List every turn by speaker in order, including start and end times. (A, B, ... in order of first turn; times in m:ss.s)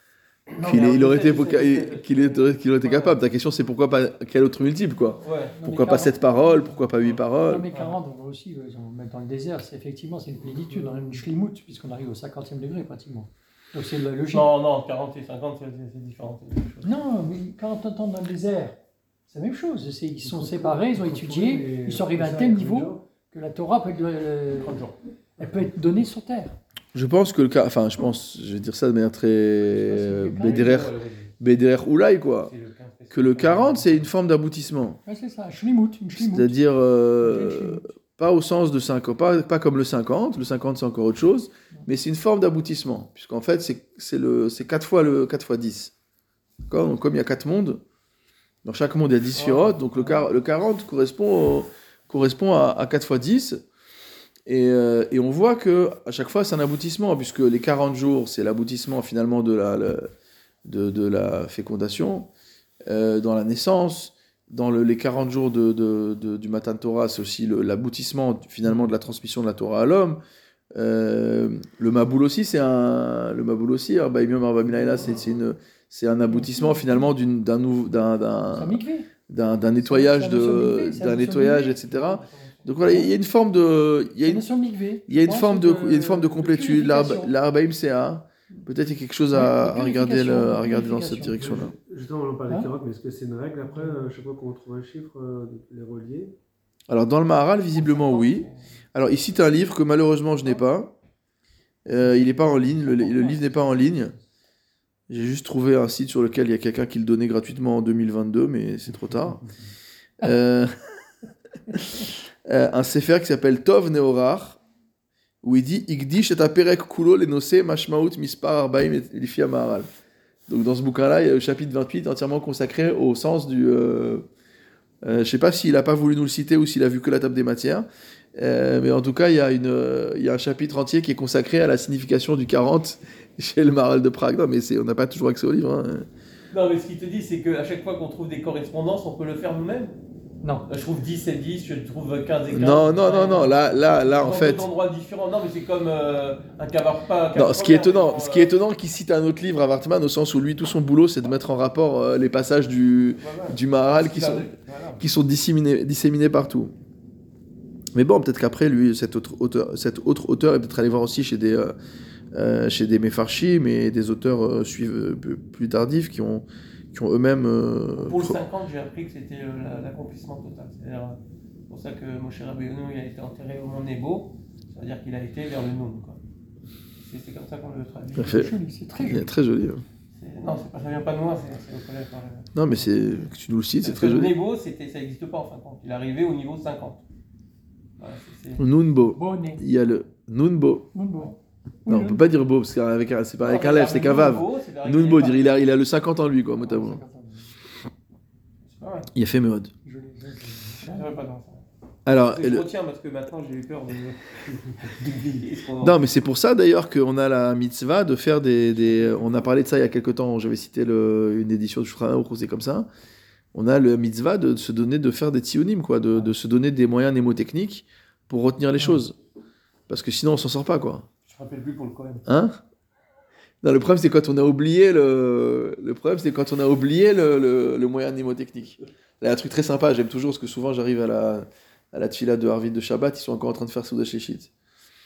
0:00.5-0:03.2 A
0:00.6-0:01.0 B
0:00.6-0:07.7 C
0:05.2-0:05.6 A
0:05.5-0:06.7 B
0:07.4-0:14.5 B
0:10.7-0:11.0 A
0:14.3-0:17.0 A
0:16.8-0:24.8 B
0:20.2-0:23.0 D
0:24.6-0:25.0 A
0:25.4-0:26.6 B
0:26.9-0:32.5 C
0:29.8-0:30.9 B
0:30.4-0:31.3 A
0:32.4-0:34.1 A
0:33.1-0:35.0 C
0:35.0-0:36.6 B
0:36.2-0:45.9 C
0:37.2-0:37.8 B
0:46.7-0:47.8 C
0:48.6-0:53.6 C
0:49.4-0:49.8 A
0:54.5-1:00.1 C
1:00.6-1:02.3 C
1:02.9-1:10.2 C
1:10.7-1:24.4 C
1:14.7-1:15.2 A
1:16.3-1:17.1 B
1:18.5-1:19.1 B
1:19.8-1:21.9 B
1:21.8-1:22.8 A
1:22.8-1:23.1 B
1:24.2-1:27.3 B
1:25.1-1:31.7 C
1:29.3-1:31.7 B
1:31.4-1:36.3 D
1:33.7-1:34.2 B
1:36.9-1:40.9 C
1:37.7-1:38.6 A
1:41.8-1:44.1 C
1:42.0-1:44.2 B
1:45.1-1:49.4 C
1:50.2-1:50.7 C
1:51.7-1:54.6 C
1:55.4-1:59.9 C
2:00.5-2:04.2 C
2:05.0-2:16.1 C
2:16.5-2:20.0 A
2:20.6-2:28.5 A
2:22.5-2:24.6 C
2:27.3-2:34.5 C
2:33.2-2:35.0 A
2:35.0-2:36.7 C
2:37.9-2:41.7 C
2:42.3-2:48.4 C
2:48.0-2:56.2 A
2:57.0-2:58.4 A
2:58.1-2:59.3 B
2:58.2-2:59.8 C
3:00.1-3:02.5 A
3:02.5-3:04.3 C
3:03.8-3:07.0 A
3:08.0-3:08.6 A
3:08.6-3:10.9 C
3:09.1-3:09.6 B
3:10.9-3:11.3 B
3:11.8-3:12.3 B
3:11.8-3:17.0 C
3:13.4-3:15.6 A
3:16.5-3:17.6 B
3:18.6-3:19.1 A
3:19.1-3:19.7 C
3:19.8-3:21.2 B
3:20.9-3:26.0 A
3:22.0-3:22.6 C
3:25.8-3:32.9 C
3:33.5-3:39.1 C
3:39.9-3:41.1 C
3:41.2-3:42.2 A
3:42.2-3:42.6 C
3:43.6-3:54.5 C